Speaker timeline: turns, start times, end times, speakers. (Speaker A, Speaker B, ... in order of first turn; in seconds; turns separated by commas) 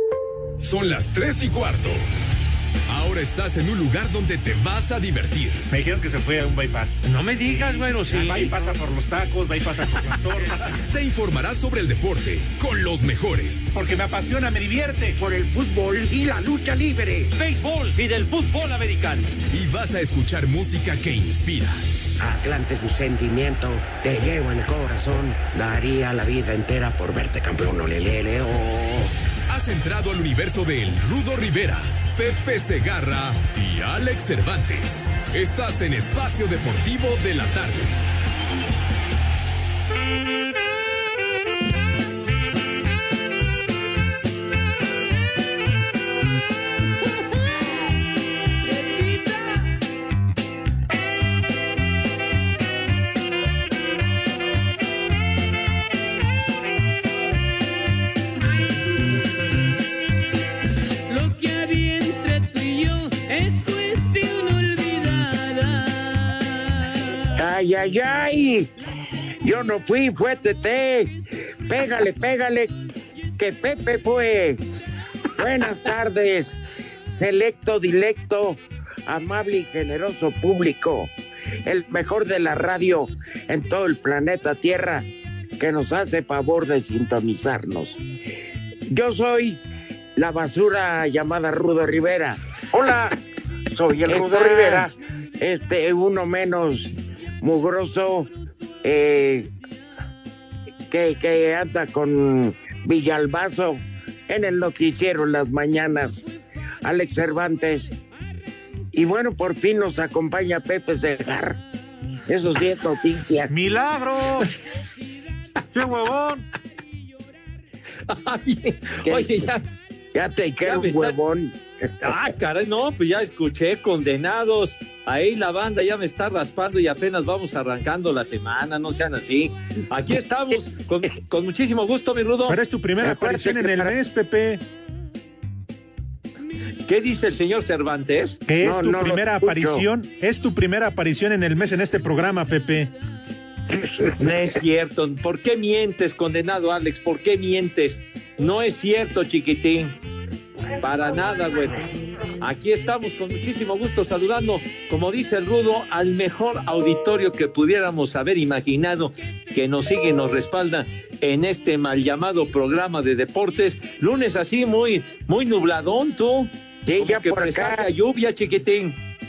Speaker A: 0.6-2.0, Speaker A: 2.9-5.7, Speaker B: 5.7-10.6, Speaker C: 7.1-8.6, Speaker A: 10.9-13.7, Speaker B: 13.7-15.2, Speaker D: 15.2-17.3, Speaker C: 17.3-19.3, Speaker A: 19.5-21.8, Speaker D: 22.2-29.1, Speaker A: 29.5-38.0, Speaker E: 48.6-49.6, Speaker E: 61.1-67.1, Speaker D: 67.3-68.7, Speaker D: 69.4-71.1, Speaker D: 71.7-72.8, Speaker D: 73.4-74.6, Speaker D: 75.3-81.1, Speaker D: 81.6-85.1, Speaker D: 85.6-88.0, Speaker D: 88.8-89.6, Speaker D: 90.2-93.2, Speaker D: 93.7-98.3, Speaker C: 94.2-94.8, Speaker D: 98.8-99.5, Speaker D: 100.9-106.2, Speaker D: 106.8-107.9, Speaker D: 108.9-111.6, Speaker D: 112.3-113.5, Speaker B: 113.5-114.5, Speaker B: 115.7-116.5, Speaker C: 118.1-119.6, Speaker D: 119.0-119.4, Speaker D: 120.1-121.6, Speaker C: 120.6-121.2, Speaker C: 122.0-132.6, Speaker B: 132.5-134.6, Speaker D: 133.0-134.0, Speaker C: 136.9-138.4, Speaker B: 138.4-142.9, Speaker D: 138.6-139.9, Speaker C: 144.2-149.9, Speaker C: 150.8-151.8, Speaker C: 152.4-169.0, Speaker D: 166.8-167.9